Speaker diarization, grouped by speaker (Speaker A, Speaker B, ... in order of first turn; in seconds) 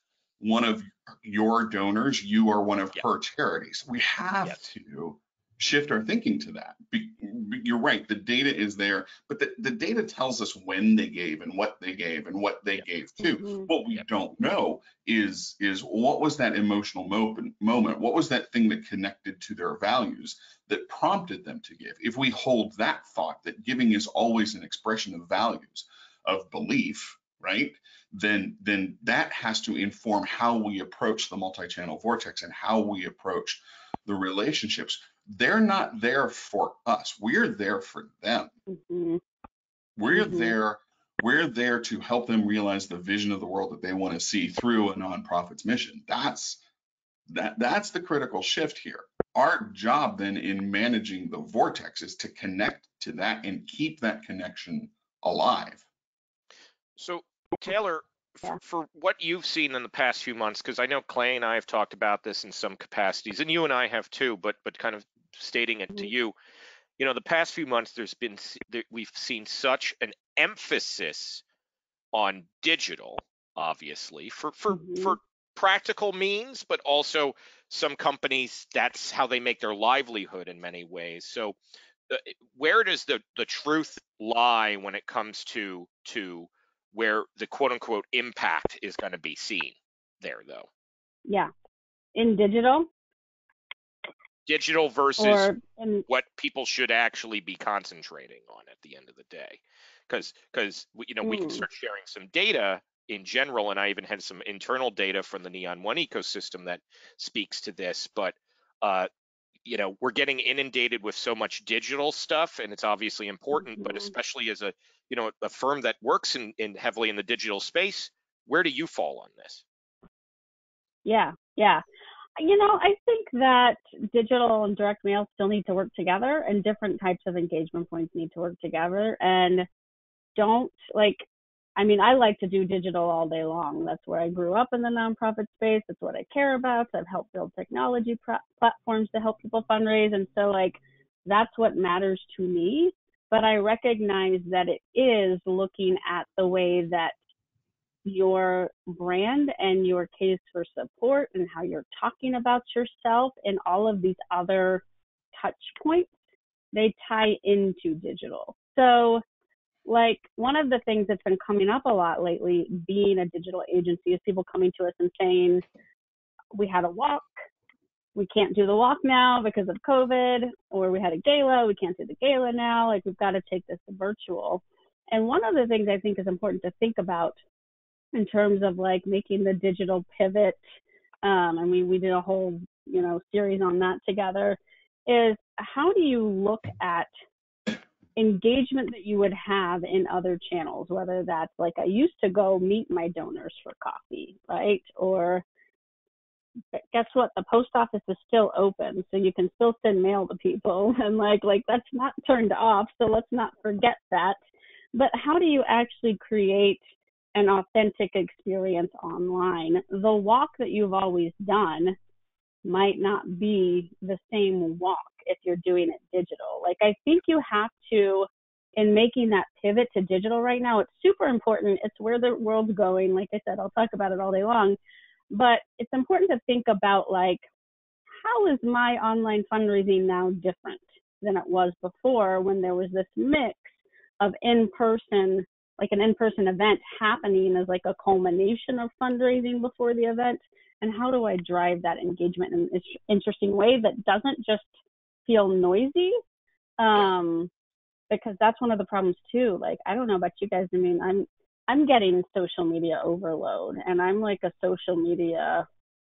Speaker A: 0.4-38.5, 40.0-46.6, 47.3-55.8
Speaker B: 4.4-4.7, 57.0-66.3, 67.0-71.4, 72.1-81.6, 82.1-90.7, 94.5-95.5, 96.1-109.1, 109.6-119.6
Speaker C: 13.4-13.7, 38.7-39.2, 40.1-40.5, 74.7-75.2, 92.1-92.9, 95.2-96.0, 101.2-101.6, 113.6-114.1, 121.0-121.8, 122.4-129.7, 130.3-131.2, 131.8-147.1, 148.0-154.8, 155.3-156.1, 156.7-159.2, 159.8-165.6, 166.5-167.3, 168.1-177.4, 178.1-180.6, 181.2-187.1, 188.2-195.4, 196.7-204.4, 204.9-206.8, 207.3-212.0, 212.6-224.8, 225.3-227.4, 228.2-244.7, 245.2-246.2, 246.8-247.5, 248.1-255.7